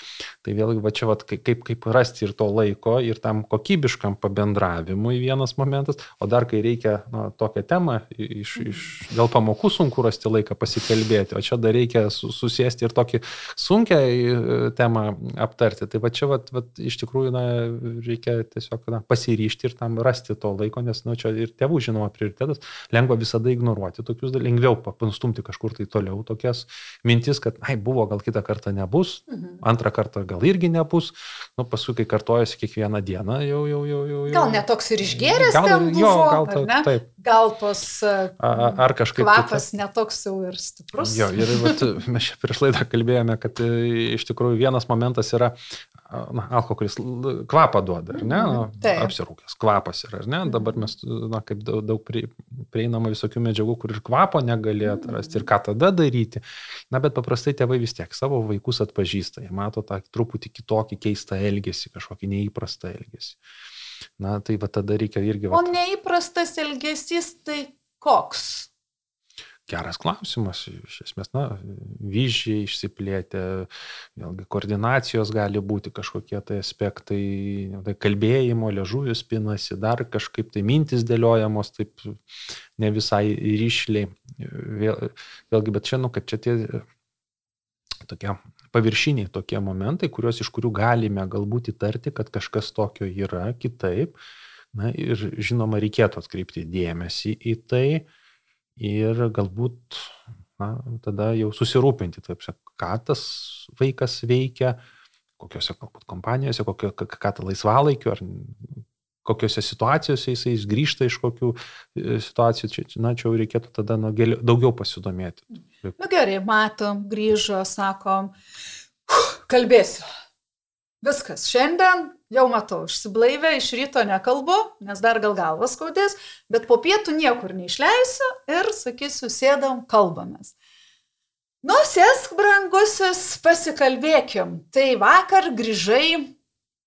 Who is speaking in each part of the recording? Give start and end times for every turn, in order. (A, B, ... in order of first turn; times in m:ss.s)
0:00.4-0:37.1 A
0:29.3-0:29.6 B
0:34.3-0:41.8 B
0:38.4-0:39.7 A
0:41.0-1:03.4 A
0:48.1-0:49.1 B
0:50.4-0:50.9 B
0:54.9-0:55.5 B
1:04.2-1:05.7 A
1:05.5-1:08.7 B
1:09.7-1:22.2 A
1:22.8-1:26.8 A
1:28.0-1:34.2 A
1:34.7-1:38.1 A
1:38.8-1:44.8 A
1:45.4-1:56.0 A
1:56.0-1:58.3 B
1:59.1-2:00.1 B
2:01.0-2:10.5 B
2:11.6-2:16.3 B